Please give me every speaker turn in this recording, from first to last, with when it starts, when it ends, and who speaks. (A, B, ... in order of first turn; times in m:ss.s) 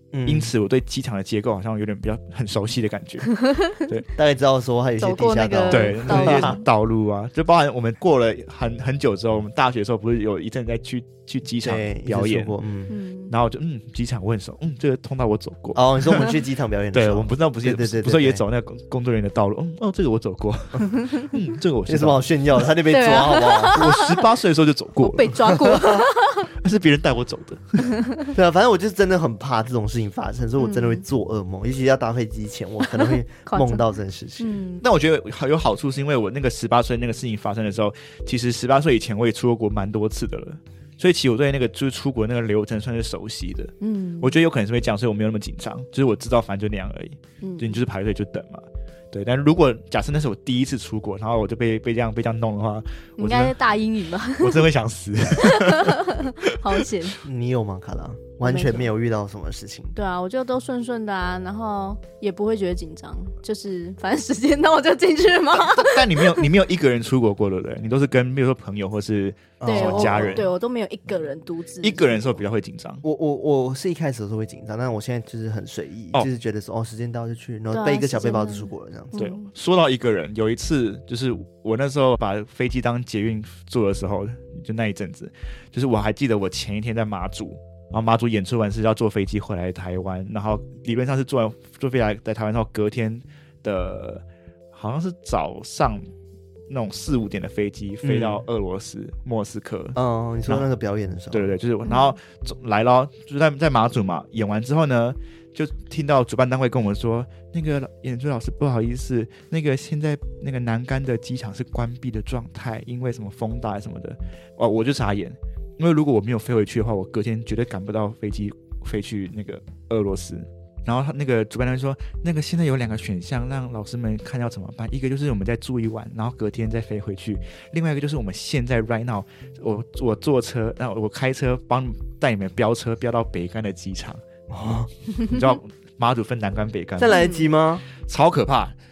0:00.1-0:00.5 A
0:00.2-0:04.1 B
0:03.3-0:03.8 C
0:04.2-0:06.6 A
0:05.0-0:06.6 C
0:05.7-0:12.5 B
0:11.6-0:12.9 A
0:12.9-0:13.3 C
0:13.3-0:16.3 B
0:15.7-0:18.4 A
0:16.9-0:22.2 B
0:21.9-0:23.8 A
0:22.9-0:24.2 C
0:23.7-0:25.8 B
0:25.0-0:26.5 C
0:25.6-0:26.0 A
0:26.4-0:28.0 B
0:27.8-0:28.3 C
0:28.3-0:34.5 A
0:30.6-0:31.0 C
0:32.8-0:33.8 C
0:34.4-0:34.8 C
0:34.8-0:53.6 B
0:43.8-0:44.3 C
0:47.4-0:47.8 C
0:53.2-0:54.6 C
0:54.4-0:56.5 B
0:55.4-0:57.2 C
0:57.2-0:59.9 A
0:58.4-0:58.9 C
0:59.9-1:06.5 C
1:05.5-1:10.5 B
1:09.6-1:10.5 A
1:09.6-1:12.3 C
1:11.8-1:13.0 B
1:13.0-1:19.2 A
1:17.7-1:19.5 C
1:19.2-1:36.0 B
1:36.7-1:40.6 B
1:38.0-1:38.4 A
1:40.0-1:41.5 A
1:41.3-2:14.2 B
1:41.8-1:42.1 C
2:14.5-2:14.9 A
2:15.2-2:17.2 B
2:17.0-2:17.8 A
2:17.1-2:17.5 C
2:17.9-2:18.7 B